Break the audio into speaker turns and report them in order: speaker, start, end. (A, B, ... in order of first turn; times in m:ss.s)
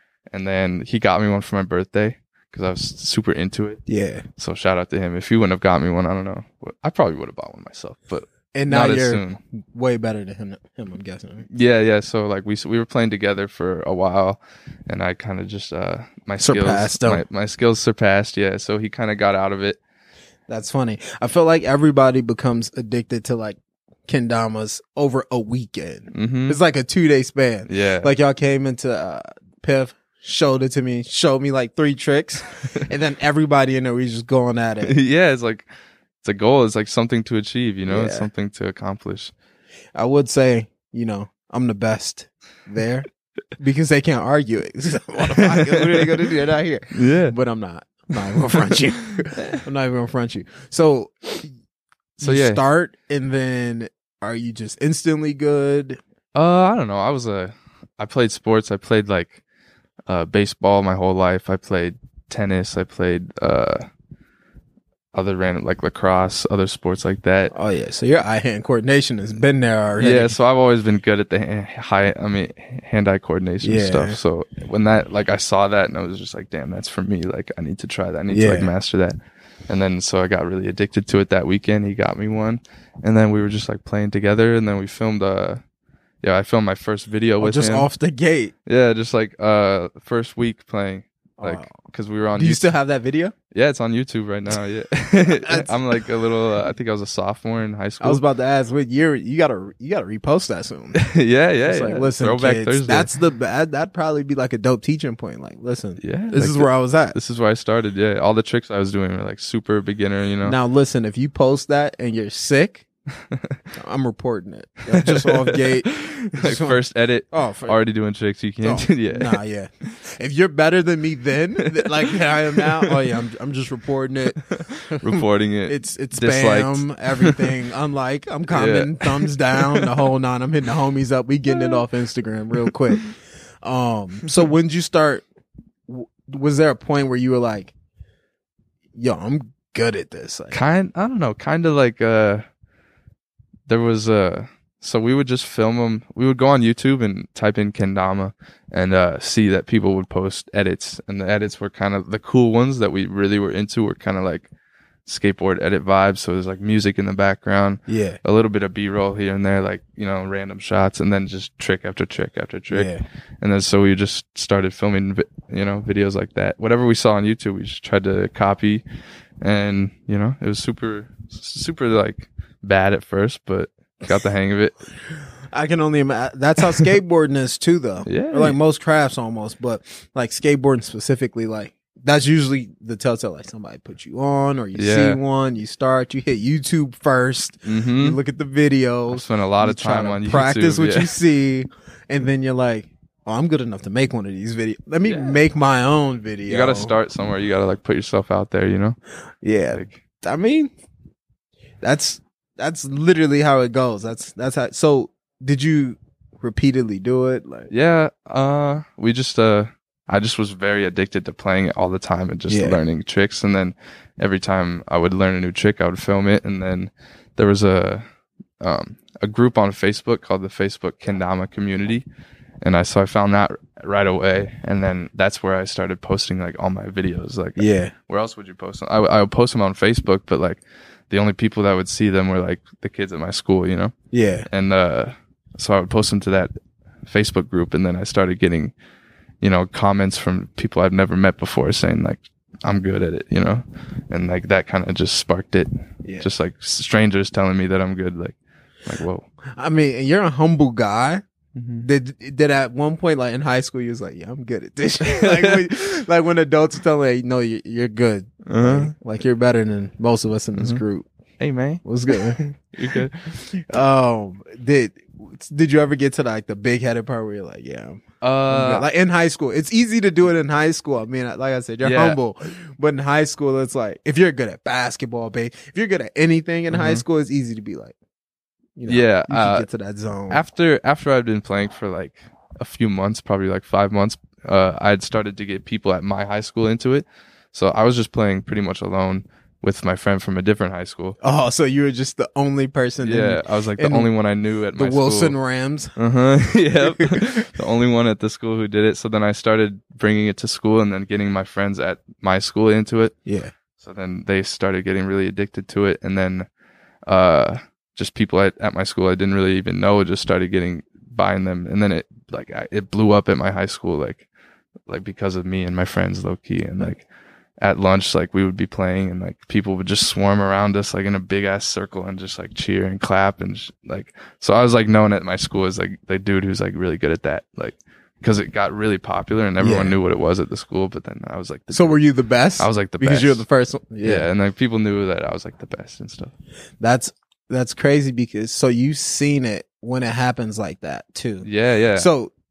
0:00.3-0:03.8 A
0:03.9-0:04.2 B
0:04.4-0:09.4 A
0:08.5-0:11.4 B
0:11.5-0:19.8 A
0:16.4-0:17.2 B
0:20.5-0:35.0 B
0:26.1-0:26.6 A
0:27.7-0:28.1 A
0:34.8-0:35.7 A
0:36.2-0:39.3 A
0:37.9-0:38.3 B
0:39.9-0:51.5 B
0:45.4-0:46.2 A
0:46.9-0:47.4 A
0:52.2-0:52.6 A
0:52.2-0:56.0 B
0:56.3-0:59.4 A
1:00.1-1:03.8 A
1:05.1-1:07.5 A
1:07.5-1:10.3 B
1:10.0-1:19.2 A
1:13.6-1:14.2 B
1:18.3-1:18.7 B
1:19.7-1:25.6 A
1:26.2-1:27.9 A
1:27.4-1:28.5 B
1:28.6-1:32.7 A
1:31.4-1:31.7 B
1:32.4-1:33.3 B
1:33.5-1:38.2 A
1:35.2-1:36.0 B
1:38.0-1:41.0 B
1:40.9-1:43.1 A
1:41.6-1:47.2 B
1:46.0-1:50.6 A
1:50.4-1:52.8 B
1:53.8-1:56.8 B
1:54.9-1:59.9 A
1:57.3-1:57.8 B
1:58.6-2:15.2 B
2:01.6-2:02.9 A
2:04.5-2:07.5 A
2:08.5-2:10.0 A
2:11.5-2:11.8 A
2:12.6-2:13.1 A
2:15.9-2:17.7 B
2:18.9-2:20.6 B
2:20.5-2:22.4 A
2:23.7-2:34.5 A
2:35.0-2:48.8 A
2:37.9-2:38.2 B
2:42.7-2:43.0 B
2:49.4-2:54.8 A
2:55.5-3:16.9 B
2:58.0-2:58.6 A
3:04.7-3:05.2 A
3:07.6-3:08.2 A
3:09.1-3:11.1 A
3:15.0-3:15.4 A
3:16.5-3:19.0 A
3:19.4-3:20.7 B
3:19.7-3:20.0 A
3:21.8-3:27.7 B
3:27.7-3:38.0 A
3:32.5-3:32.8 B
3:38.6-3:42.0 A
3:42.6-3:53.9 A
3:47.6-3:47.9 B
3:54.1-3:54.5 B
3:54.5-3:56.5 A
3:57.1-3:58.7 A
3:59.4-4:09.2 A
4:09.6-4:11.2 B
4:11.5-4:11.8 A
4:11.8-4:21.0 B
4:15.0-4:15.7 A
4:18.4-4:18.9 A
4:20.6-4:20.8 A
4:21.4-4:22.2 A
4:21.8-4:37.9 B
4:22.7-4:23.3 A
4:28.2-4:28.8 A
4:31.8-4:32.2 A
4:36.7-4:37.0 A
4:38.8-4:40.4 B
4:38.9-4:39.6 A
4:40.3-4:51.2 A
4:51.2-4:54.1 B
4:53.0-4:55.4 A
4:54.7-4:57.5 B
4:56.0-5:03.1 A
5:03.2-5:03.5 B
5:03.8-5:06.5 A
5:07.1-5:14.3 A
5:14.9-5:17.0 A
5:17.6-5:32.0 A
5:29.6-5:30.0 B
5:31.7-5:34.3 B
5:32.6-5:33.4 A
5:34.0-5:36.3 A
5:36.8-5:42.3 B
5:41.4-5:42.1 A